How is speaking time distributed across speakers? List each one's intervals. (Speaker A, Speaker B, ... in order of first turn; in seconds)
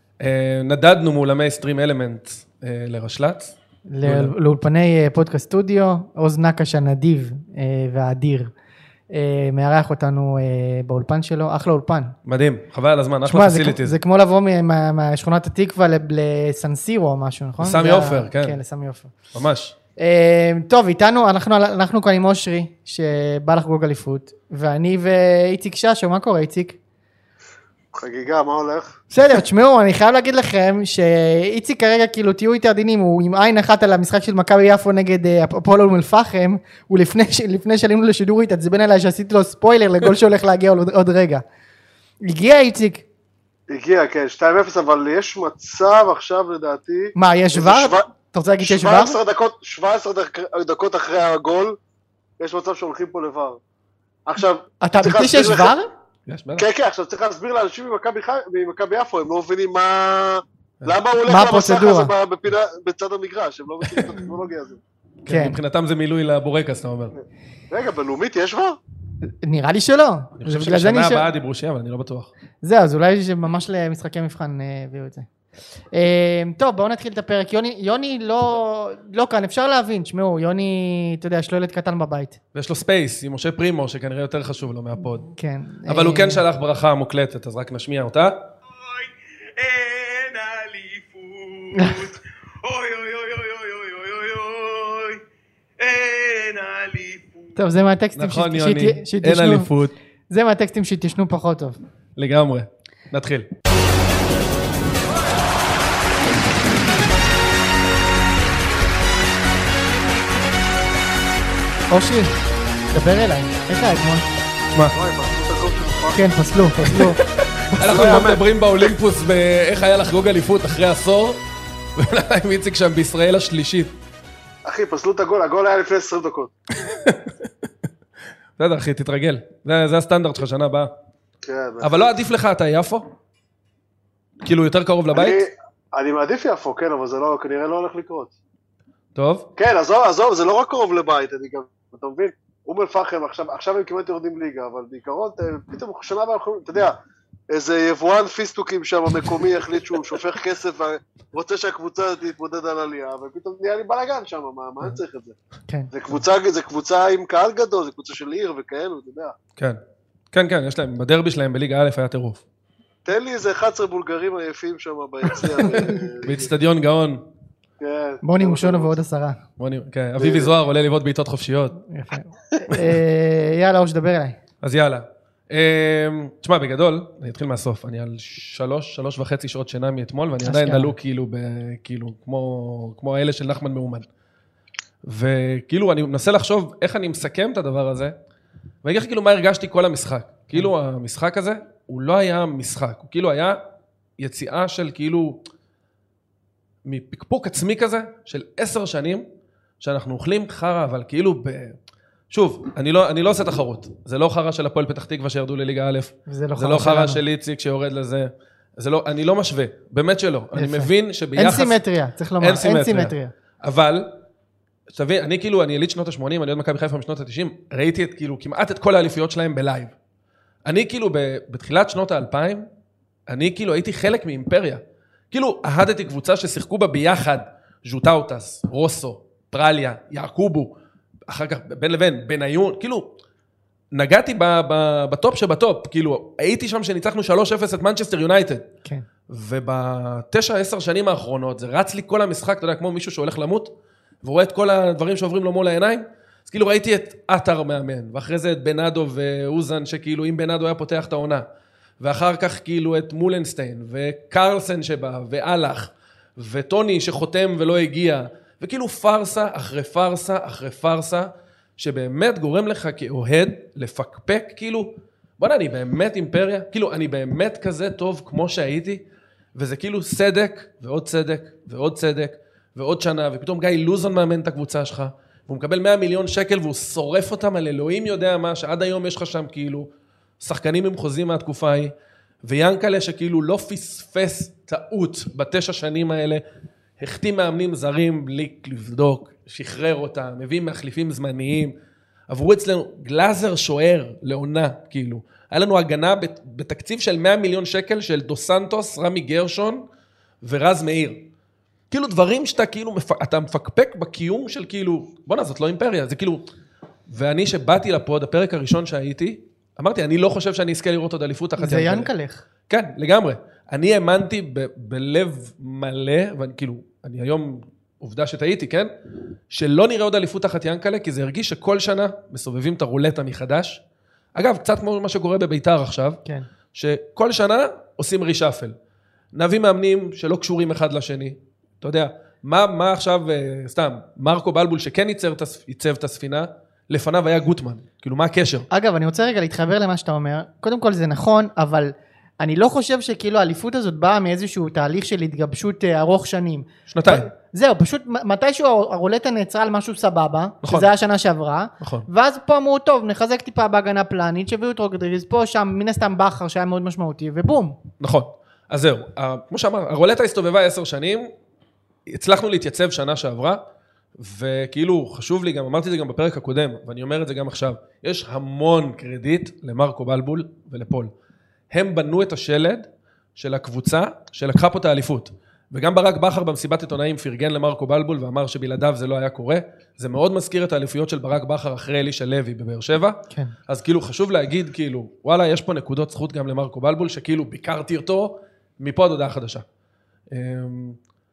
Speaker A: 0.2-4.3, 12.3-13.9, 17.6-18.6, 19.3-19.7, 56.3-56.7, 65.2-67.1, 70.4-72.3, 82.5-85.3, 85.9-88.5, 98.1-100.0, 102.2-103.5, 116.9-121.4, 122.0-124.0, 126.8-127.5, 128.6-130.9, 131.8-133.1, 134.4-135.4, 139.1-139.5, 160.3-162.4, 165.6-167.2, 169.6-171.8, 174.6-184.1, 185.0-188.1, 188.8-193.6, 194.2-195.4, 196.8-199.2, 199.8-201.8, 202.3-211.8, 212.4-214.2, 214.9-219.9, 220.7-222.7, 223.3-230.8, 231.3-233.2, 233.9-238.7, 239.3-251.5, 252.0-269.0, 269.6-279.9, 280.4-286.4, 287.0-291.7, 292.3-299.9, 300.4-301.3, 301.9-306.5, 307.1-312.1, 312.7-318.9, 319.5-323.8, 324.4-326.2, 326.7-328.8, 329.3-338.7, 346.9-347.3, 350.6-350.9, 351.8-352.1, 358.0-361.3, 362.1-363.6, 364.2-371.1, 371.7-389.6, 390.3-391.0
Speaker B: 3.9-8.5, 9.1-12.2, 13.2-19.1, 20.0-26.8, 29.1-41.5, 42.2-43.0, 47.2-49.2, 54.8-55.9, 61.3-62.1, 65.3-65.6, 69.3-71.2, 72.6-75.3, 75.9-82.4, 85.2-86.4, 91.8-92.0, 97.6-99.7, 100.3-101.8, 111.9-112.3, 112.9-114.3, 116.1-117.2, 168.2-169.4, 171.8-174.4, 180.4-180.9, 206.3-207.2, 210.5-213.3, 311.6-312.4, 338.7-357.8
Speaker C: 27.9-28.9, 43.7-48.1, 48.6-51.8, 52.4-53.6, 54.3-55.8, 56.6-64.8, 67.7-68.8, 114.9-116.3, 117.8-118.5, 124.6-126.5, 131.4-132.2, 135.1-138.3, 139.6-147.0, 147.5-155.3, 155.9-159.3, 163.0-166.5, 167.8-168.9, 170.2-170.5
Speaker D: 88.7-95.2, 95.8-97.6